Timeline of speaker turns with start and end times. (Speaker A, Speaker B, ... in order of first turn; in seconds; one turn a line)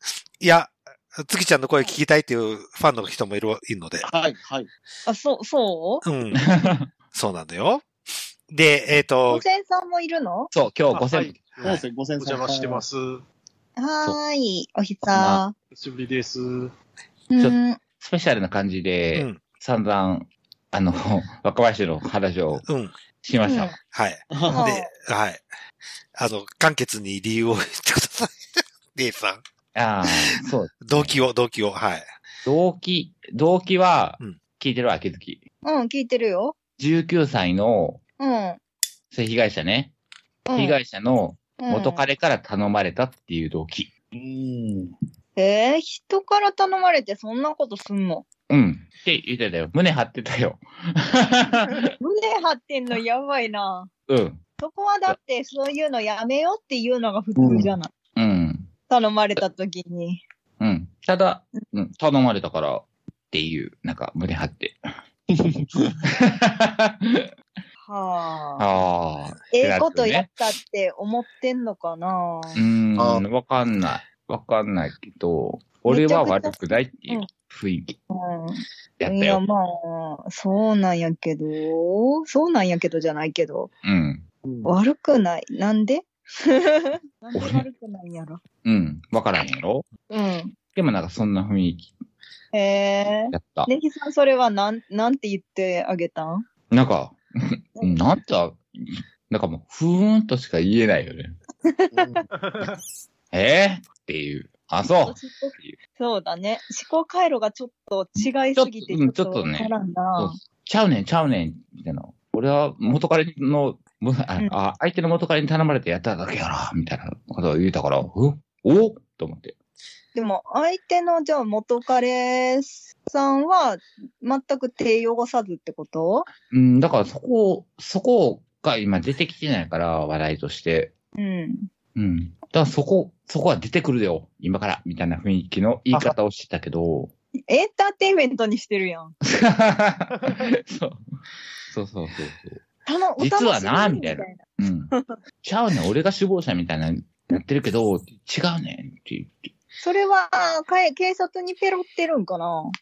Speaker A: 0.4-4.0
Speaker B: 4.0-4.7
Speaker C: 5.0-6.0
Speaker A: 6.0-6.5
Speaker D: 6.4-6.9
Speaker A: 7.1-7.8
Speaker A: 8.5-9.4
Speaker C: 9.3-10.5
Speaker D: 10.5-11.4
Speaker E: 10.9-13.2
Speaker B: 11.6-12.8
Speaker C: 13.8-15.6
Speaker D: 15.1-15.4
Speaker E: 15.7-16.7
Speaker C: 17.3-17.8
Speaker D: 17.4-22.6
Speaker A: 19.1-19.4
Speaker A: 22.6-22.9
Speaker D: 23.2-23.8
Speaker C: 23.4-23.8
Speaker A: 23.8-25.4
Speaker B: 24.3-24.6
Speaker C: 24.5-24.9
Speaker A: 26.1-29.4
Speaker D: 29.7-31.1
Speaker A: 30.8-32.1
Speaker D: 32.4-35.4
Speaker C: 35.6-36.6
Speaker D: 36.8-38.0
Speaker C: 38.2-38.6
Speaker D: 39.1-39.9
Speaker C: 40.5-40.8
Speaker D: 40.5-43.9
Speaker C: 41.6-42.0
Speaker B: 44.1-44.9
Speaker C: 45.4-48.3
Speaker D: 48.5-51.9
Speaker C: 52.0-53.9
Speaker D: 54.1-54.4
Speaker C: 54.6-57.9
Speaker B: 57.4-57.7
Speaker D: 58.1-58.7
Speaker C: 58.9-60.2
Speaker D: 60.6-64.9
Speaker B: 65.4-66.0
Speaker D: 66.1-67.3
Speaker C: 67.8-68.7
Speaker D: 68.6-70.3
Speaker C: 69.5-72.6
Speaker D: 72.5-78.0
Speaker B: 73.0-73.2
Speaker C: 75.8-77.3
Speaker C: 78.1-83.7
Speaker D: 79.0-79.4
Speaker D: 83.8-84.2
Speaker B: 84.4-84.8
Speaker C: 84.6-88.4
Speaker D: 87.3-87.6
Speaker D: 88.6-89.9
Speaker C: 90.1-90.6
Speaker D: 90.7-91.9
Speaker C: 92.5-96.4
Speaker D: 93.3-93.7
Speaker D: 96.7-101.3
Speaker C: 97.8-98.0
Speaker C: 101.7-102.2
Speaker B: 101.9-102.2
Speaker E: 102.3-102.8
Speaker D: 103.3-105.8
Speaker C: 105.0-110.4
Speaker D: 108.2-119.5
Speaker C: 120.1-126.3
Speaker D: 126.5-130.9
Speaker C: 131.2-131.7
Speaker D: 131.9-137.1
Speaker C: 137.5-139.1
Speaker D: 139.2-141.0
Speaker D: 141.7-142.6
Speaker C: 142.8-145.2
Speaker D: 143.2-149.5
Speaker C: 149.8-152.7